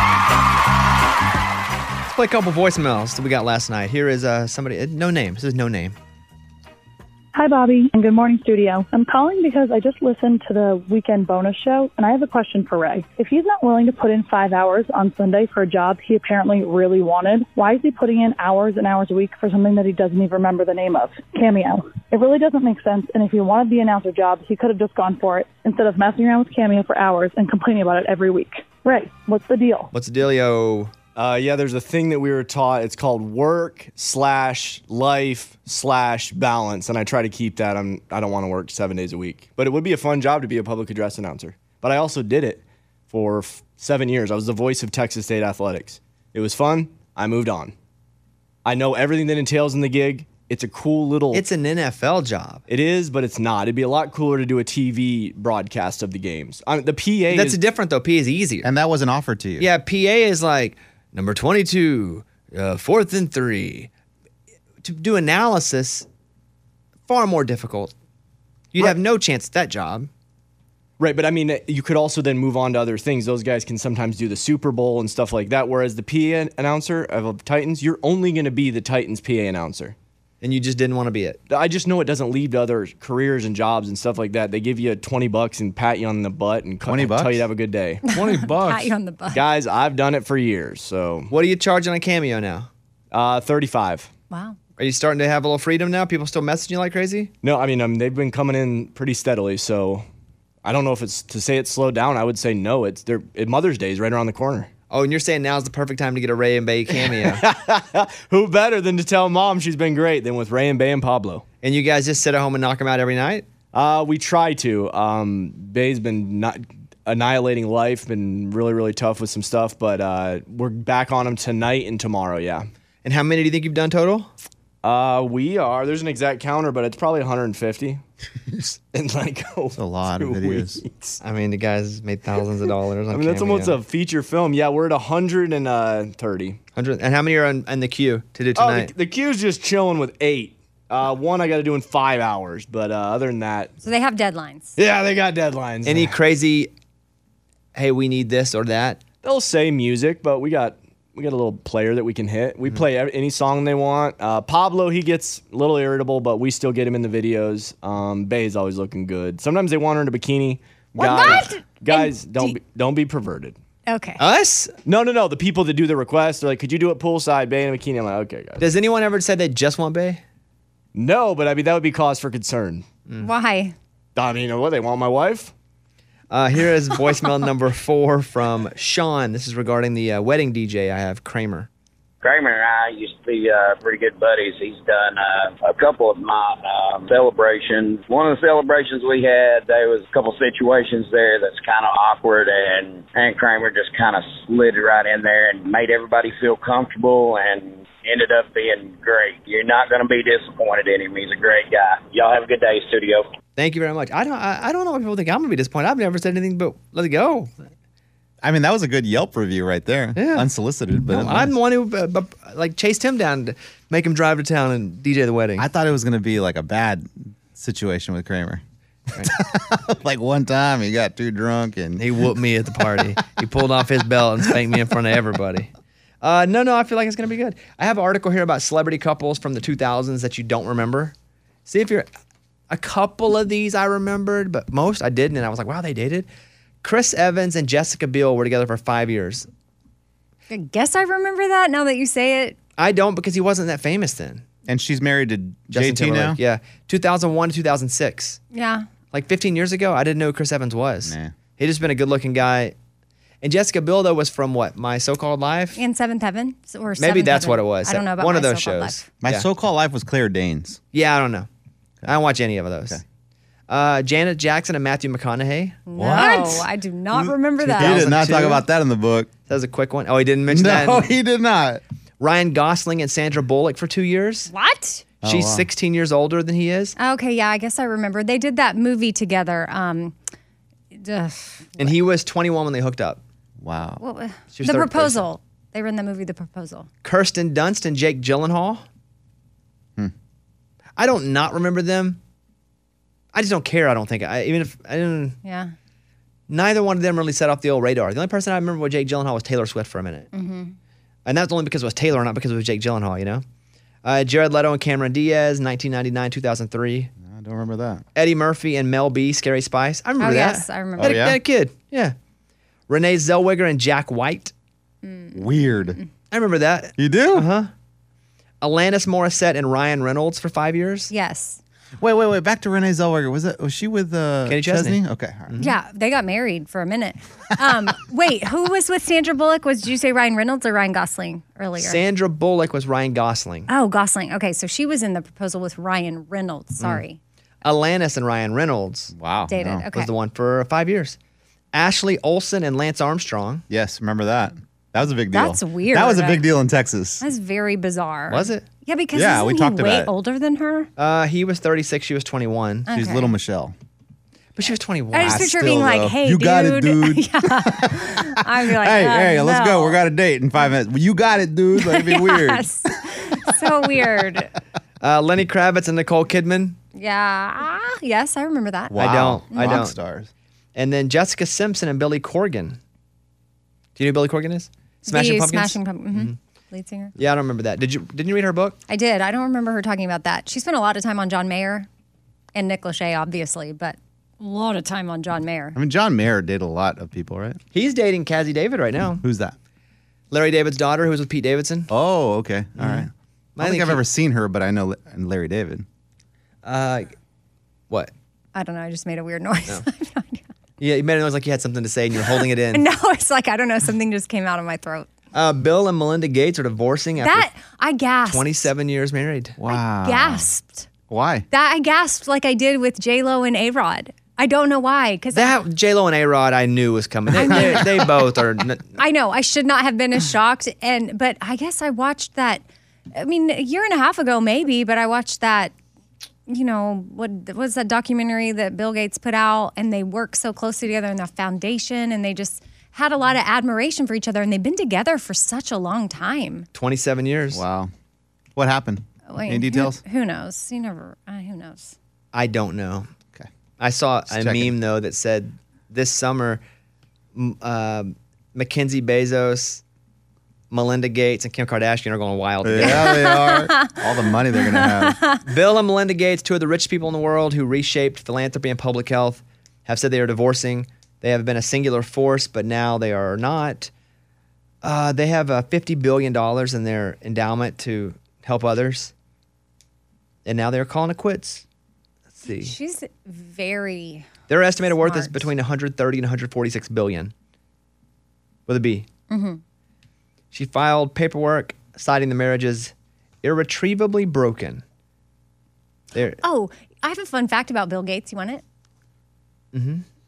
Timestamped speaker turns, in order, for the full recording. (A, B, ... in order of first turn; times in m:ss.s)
0:02.1-0:06.0 A
0:07.3-0:29.9 B
0:29.9-0:30.9 A
0:31.2-0:47.7 C
0:48.6-0:51.4 C
0:51.3-0:52.6 A
0:52.7-0:57.6 C
0:57.3-0:58.7 A
0:58.6-0:59.7 D
0:59.6-1:03.9 A
1:04.8-1:06.1 A
1:07.1-1:07.9 A
1:08.7-1:10.1 A
1:11.0-1:20.0 C
1:20.4-1:21.4 A
1:21.5-1:31.3 C
1:26.9-1:27.5 D
1:28.1-1:29.4 E
1:31.3-1:32.7 A
1:33.1-1:34.1 C
1:34.3-1:34.6 E
1:34.8-1:37.3 A
1:37.4-1:40.0 C
1:40.6-1:44.7 C
1:44.9-1:47.4 A
1:47.1-1:51.4 C
1:51.6-1:53.5 A
1:53.7-2:02.7 C
2:03.0-2:04.3 A
2:04.8-2:08.0 C
2:08.9-2:11.2 C
2:09.8-2:10.8 D
2:11.2-2:13.8 A
2:13.1-2:16.6 C
2:16.8-2:18.9 A
2:18.6-2:23.7 C
2:23.8-2:24.8 E
2:24.8-2:26.2 C
2:25.8-2:26.7 A
2:27.8-2:29.0 A
2:29.2-2:43.6 C
2:41.0-2:41.5 A
2:41.0-2:42.6 E
2:43.9-2:44.2 E
2:44.2-2:44.7 A
2:44.9-2:48.7 C
2:48.6-2:50.2 A
2:51.0-2:52.8 C
2:53.2-2:53.8 E
2:54.2-2:55.5 C
2:56.3-3:01.7 A
3:02.2-3:23.3 F
3:23.6-3:27.5 A
3:28.4-3:31.5 D
3:30.2-3:30.5 A
3:31.1-3:35.7 A
3:35.6-3:38.6 D
3:39.2-3:42.2 D
3:42.0-3:45.7 A
3:46.2-3:51.1 A
3:51.7-3:52.1 A
3:52.7-3:56.3 A
3:56.8-3:59.5 A
4:00.5-4:02.6 E
4:02.8-4:04.4 A
4:04.7-4:06.4 D
4:05.7-4:08.4 A
4:08.5-4:08.9 E
4:09.1-4:12.7 A
4:11.0-4:11.3 D
4:13.4-4:15.8 A
4:15.8-4:19.1 E
4:17.0-4:19.5 A
4:19.2-4:20.8 D
4:20.9-4:21.5 A
4:22.0-4:23.0 A
4:23.7-4:25.8 A
4:25.9-4:28.2 E
4:25.9-4:29.3 D
4:27.6-4:28.6 A
4:29.5-4:31.1 A
4:30.5-4:31.8 D
4:32.2-4:34.5 A
4:34.5-4:35.0 E
4:35.2-4:35.7 D
4:35.2-4:37.0 A
4:37.0-4:40.2 E
4:40.9-4:41.9 E
4:41.8-4:43.2 A
4:43.6-4:44.0 D
4:44.0-4:46.9 E
4:44.5-4:45.2 A
4:47.0-4:48.8 A
4:51.0-4:52.2 A
4:53.3-4:55.4 A
4:55.4-4:55.7 E
4:56.5-5:00.3 A
5:00.3-5:00.8 E
5:01.3-5:03.4 A
5:04.0-5:07.1 A
5:07.2-5:08.0 D
5:08.2-5:12.2 A
5:10.2-5:11.3 E
5:11.0-5:11.4 D
5:12.9-5:14.5 A
5:15.0-5:15.4 E
5:15.3-5:16.0 D
5:16.3-5:17.7 A
5:17.0-5:17.5 D
5:18.6-5:21.1 A
5:21.1-5:21.6 E
5:22.0-5:25.6 D
5:24.5-5:25.7 A
5:25.6-5:32.0 E
5:31.8-5:33.7 A
5:33.7-5:37.2 E
5:37.6-5:39.1 A
5:39.1-5:39.9 D
5:39.5-5:40.1 E
5:39.9-5:41.2 A
5:41.7-5:43.6 A
5:43.7-5:47.2 D
5:45.3-5:46.5 E
5:47.2-5:50.9 E
5:48.3-5:48.7 A
5:49.1-5:50.1 D
5:51.0-5:52.9 A
5:52.9-5:53.3 E
5:52.9-5:53.7 D
5:54.6-5:55.5 A
5:55.1-6:00.0 E
5:55.2-6:02.7 D
6:01.8-6:04.5 E
6:05.0-6:06.8 A
6:07.0-6:09.8 E
6:08.9-6:10.3 D
6:09.0-6:10.0 A
6:10.8-6:12.8 A
6:14.0-6:16.4 A
6:15.1-6:17.1 E
6:17.2-6:18.8 A
6:18.9-6:21.9 E
6:22.6-6:25.8 E
6:25.8-6:27.6 D
6:27.7-6:29.2 A
6:29.2-6:29.6 D
6:30.3-6:31.9 A
6:31.9-6:35.9 D
6:32.8-6:34.0 A
6:36.6-6:37.2 A
6:38.6-6:40.4 E
6:40.8-6:42.8 A
6:42.7-6:45.1 E
6:45.3-6:47.5 A
6:47.2-6:48.7 E
6:48.3-6:49.6 A
6:49.6-6:50.5 D
6:49.7-6:50.9 E
6:51.1-6:51.5 D
6:51.5-6:55.6 E
6:55.3-6:58.9 A
6:57.4-6:58.1 E
6:59.0-7:05.7 E
7:06.5-7:16.7 E
7:16.8-7:17.6 A
7:17.5-7:17.9 D
7:18.6-7:20.0 D
7:19.3-7:22.0 E
7:22.3-7:23.1 A
7:23.8-7:26.6 A
7:24.3-7:24.8 D
7:27.4-7:29.8 A
7:30.7-7:33.2 A
7:32.6-7:35.2 D
7:32.8-7:35.4 E
7:35.4-7:43.9 A
7:44.8-7:49.1 A
7:50.4-7:51.6 A
7:52.4-7:52.7 A
7:52.5-7:55.5 E
7:54.5-7:57.3 A
7:58.7-7:59.1 A
7:59.3-7:59.6 E
8:00.5-8:04.8 A
8:06.1-8:06.4 A
8:06.4-8:08.6 E
8:09.7-8:10.0 A